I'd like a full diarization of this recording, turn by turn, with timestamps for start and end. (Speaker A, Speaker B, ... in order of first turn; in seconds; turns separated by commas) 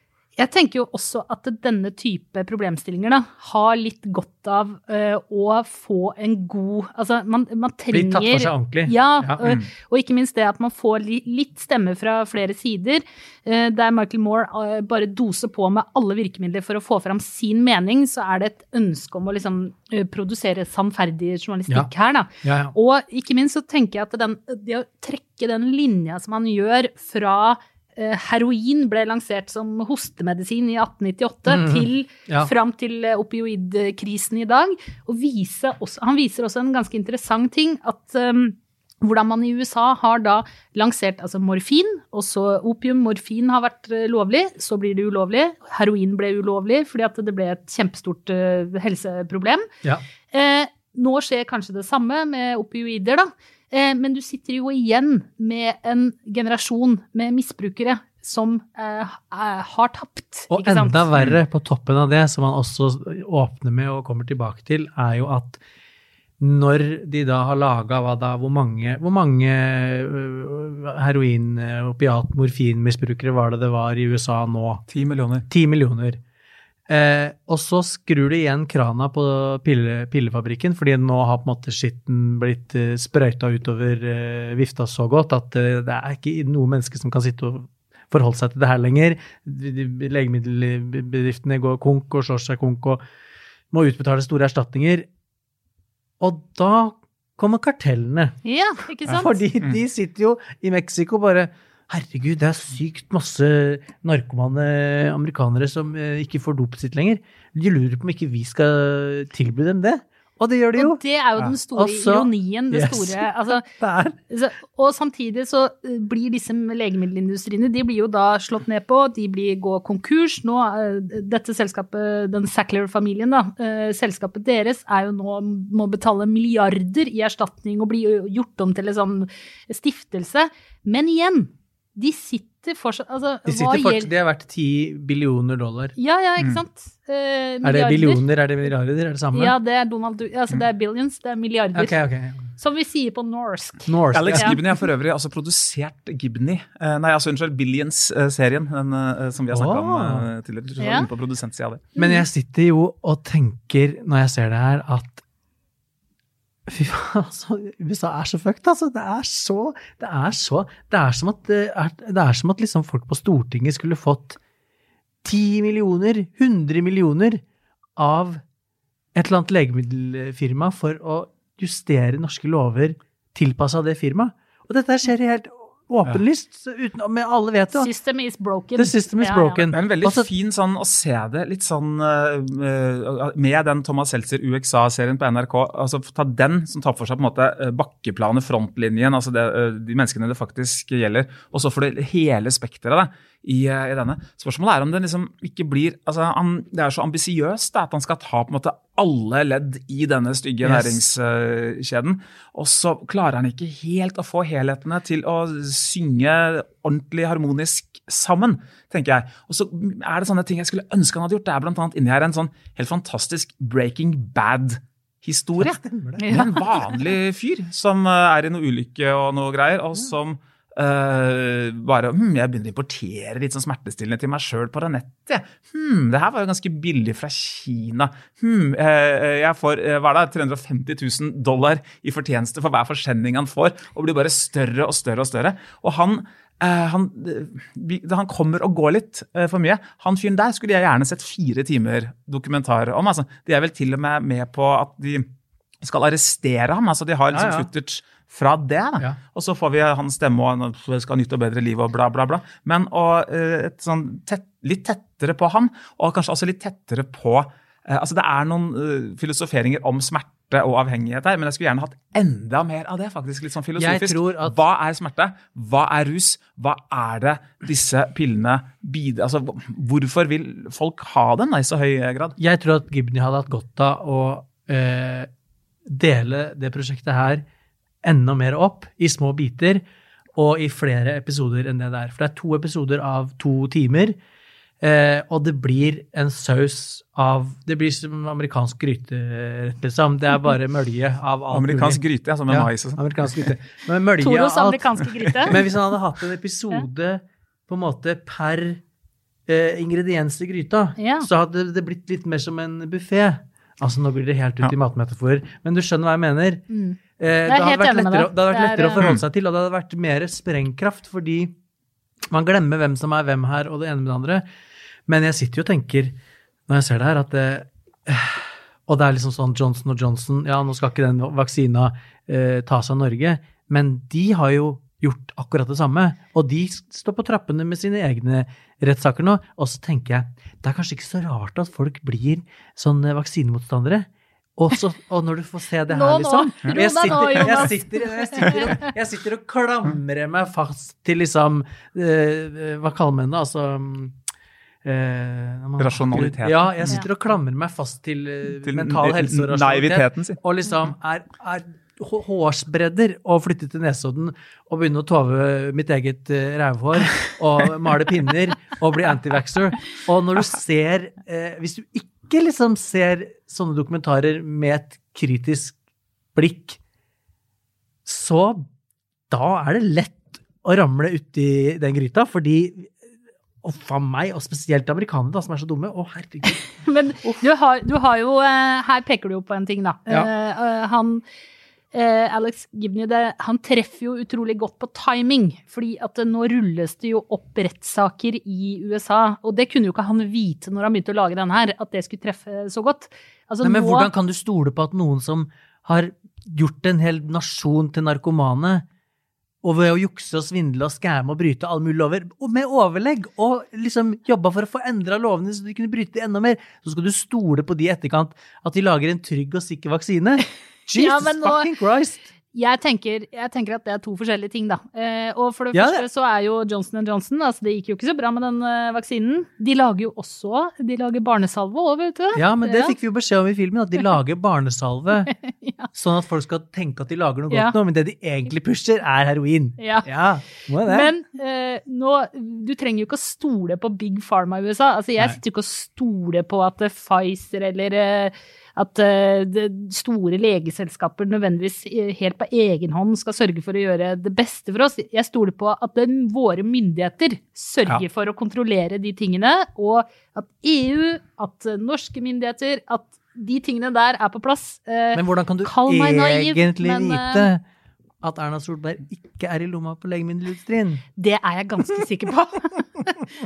Speaker A: 0.4-49.7, Speaker B: 7.9-9.4, Speaker C: 9.4-9.7, Speaker B: 22.4-22.8, Speaker B: 31.5-32.5, Speaker A: 50.3-61.1, Speaker B: 60.5-65.6, Speaker B: 66.4-74.8, Speaker C: 74.9-75.5, Speaker B: 75.5-76.2, Speaker B: 76.9-93.0, Speaker B: 93.7-95.1, Speaker B: 96.2-98.4, Speaker A: 98.4-99.4, Speaker B: 99.1-111.0, Speaker A: 110.8-113.7, Speaker B: 111.7-114.2, Speaker A: 114.3-134.1, Speaker B: 133.5-136.0, Speaker A: 136.0-138.2, Speaker B: 137.6-139.6, Speaker A: 139.3-141.9, Speaker B: 141.7-142.5, Speaker A: 142.6-144.6, Speaker B: 143.9-144.6, Speaker C: 144.1-151.8, Speaker B: 149.5-150.3, Speaker A: 150.8-151.1, Speaker A: 152.0-152.2, Speaker B: 152.0-155.2, Speaker B: 156.7-164.4, Speaker B: 165.2-167.4, Speaker B: 168.0-168.4, Speaker B: 169.2-177.9, Speaker A: 177.8-179.6, Speaker B: 178.8-180.3, Speaker C: 179.7-245.3, Speaker B: 200.6-201.0, Speaker B: 215.6-216.4, Speaker A: 216.2-216.6, Speaker C: 245.8-272.4, Speaker B: 247.3-247.7, Speaker B: 263.8-264.6, Speaker B: 272.4-275.3, Speaker B: 275.9-277.4, Speaker B: 278.0-279.8, Speaker B: 280.4-284.2, Speaker B: 284.8-298.8, Speaker C: 291.5-293.5, Speaker A: 294.2-295.6, Speaker B: 299.5-306.6, Speaker A: 301.0-301.3, Speaker A: 306.7-309.1, Speaker B: 307.2-311.6, Speaker B: 312.3-314.4, Speaker B: 315.1-316.2, Speaker B: 316.7-344.2, Speaker A: 335.9-338.8, Speaker C: 336.6-337.5, Speaker B: 344.8-365.8, Speaker C: 345.8-347.0, Speaker C: 348.6-350.4, Speaker B: 366.4-366.8, Speaker B: 368.1-368.7, Speaker B: 369.3-372.9, Speaker B: 373.6-377.4, Speaker A: 376.8-381.2, Speaker A: 381.9-394.1, Speaker B: 393.6-398.9, Speaker B: 399.6-412.3, Speaker A: 410.9-411.7, Speaker A: 412.5-422.9, Speaker B: 415.7-416.1, Speaker B: 422.4-425.3, Speaker A: 425.4-425.9, Speaker B: 425.9-431.1, Speaker A: 429.8-430.1, Speaker A: 430.8-457.5, Speaker B: 455.1-457.6, Speaker B: 458.2-461.0, Speaker A: 461.2-463.1